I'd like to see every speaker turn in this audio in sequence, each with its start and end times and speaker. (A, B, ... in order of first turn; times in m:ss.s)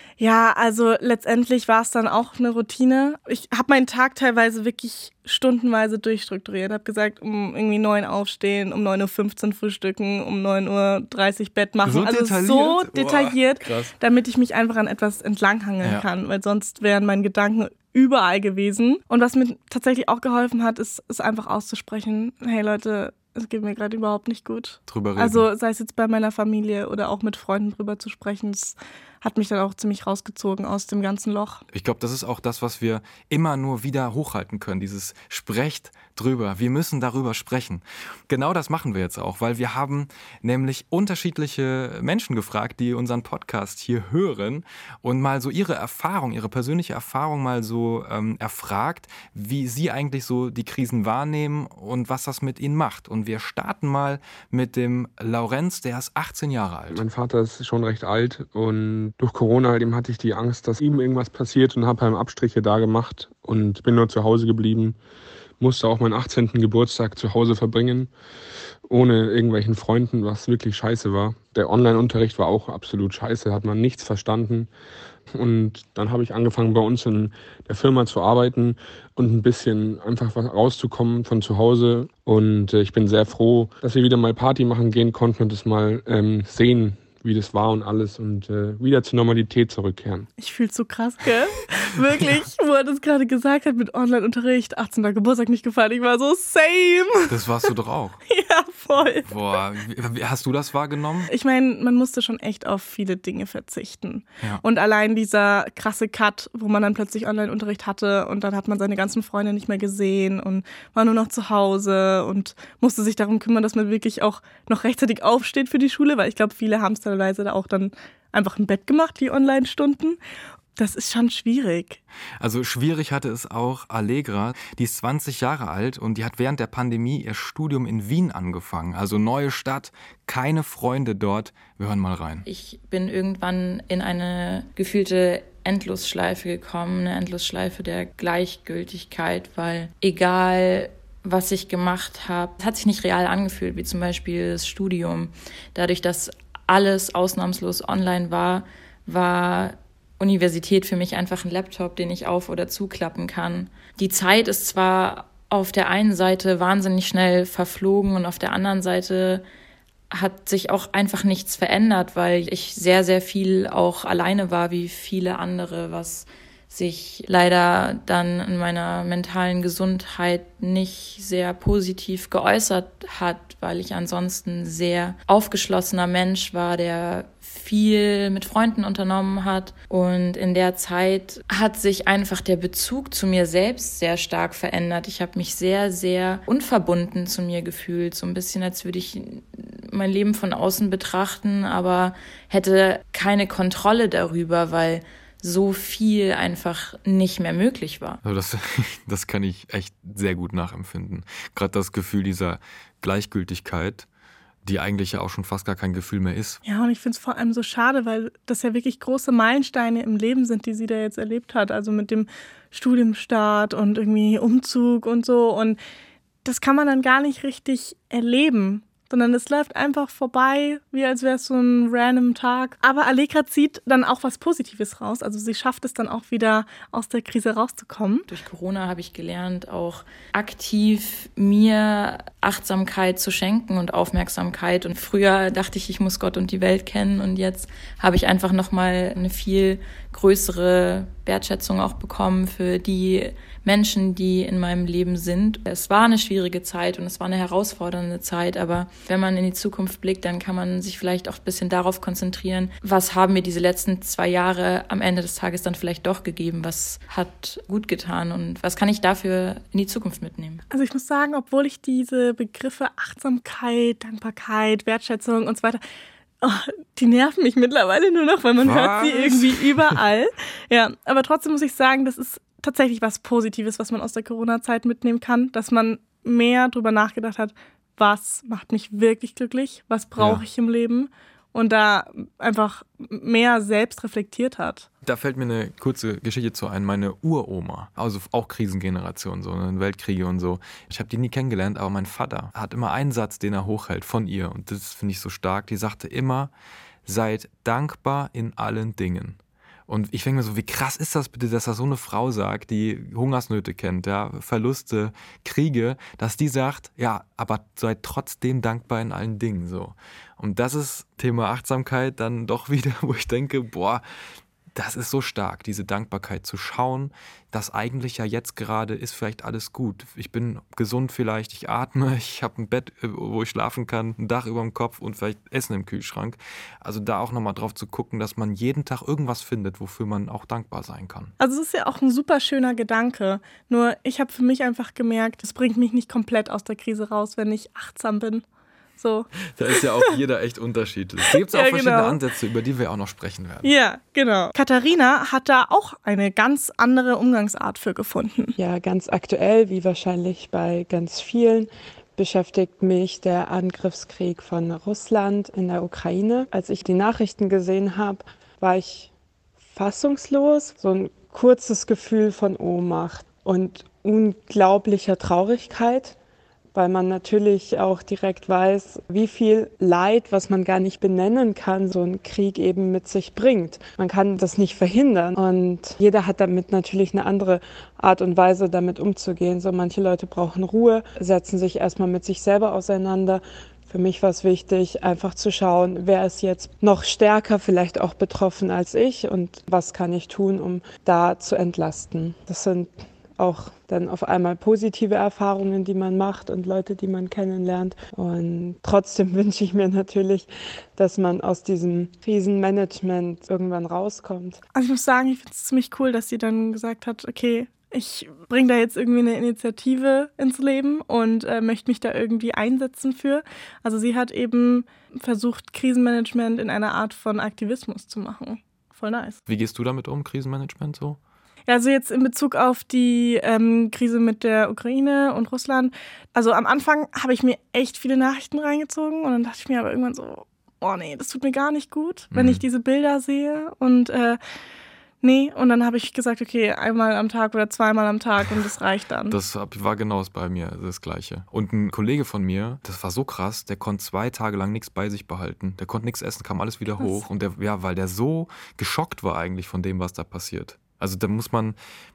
0:00.2-0:31.6 A
0:11.8-0:13.9 B
0:15.8-0:16.1 B
0:24.9-0:25.5 B
0:31.7-0:57.0 B
0:56.9-1:05.0 C
1:05.6-1:08.1 C
1:08.9-1:14.7 C
1:15.3-1:30.3 C
1:30.4-1:37.4 A
1:37.3-1:38.2 B
1:38.3-1:39.3 A
1:39.3-1:41.3 B
1:41.3-2:00.2 A
2:00.8-2:02.0 A
2:02.4-2:12.4 B
2:12.5-2:39.4 D
2:40.1-3:18.2 D
3:18.2-3:24.1 B
3:24.7-3:26.6 B
3:26.6-3:35.8 A
3:36.4-3:48.3 A
3:48.3-4:20.6 D
4:20.7-4:25.8 A
4:26.4-4:44.9 A
4:28.6-4:30.0 B
4:40.2-4:40.4 B
4:45.0-4:56.5 B
4:57.1-5:14.0 B
5:14.7-5:31.3 B
5:31.4-5:38.4 A
5:39.0-5:39.3 A
5:39.6-5:43.7 B
5:41.5-5:42.2 A
5:43.6-5:48.6 A
5:48.6-5:59.1 E
5:59.7-6:06.2 E
6:06.7-6:44.6 E
6:44.8-6:59.4 A
6:59.5-7:01.2 B
7:01.7-7:14.4 A
7:12.3-7:12.6 B
7:15.2-7:19.4 A
7:19.3-7:31.8 B
7:27.0-7:27.3 A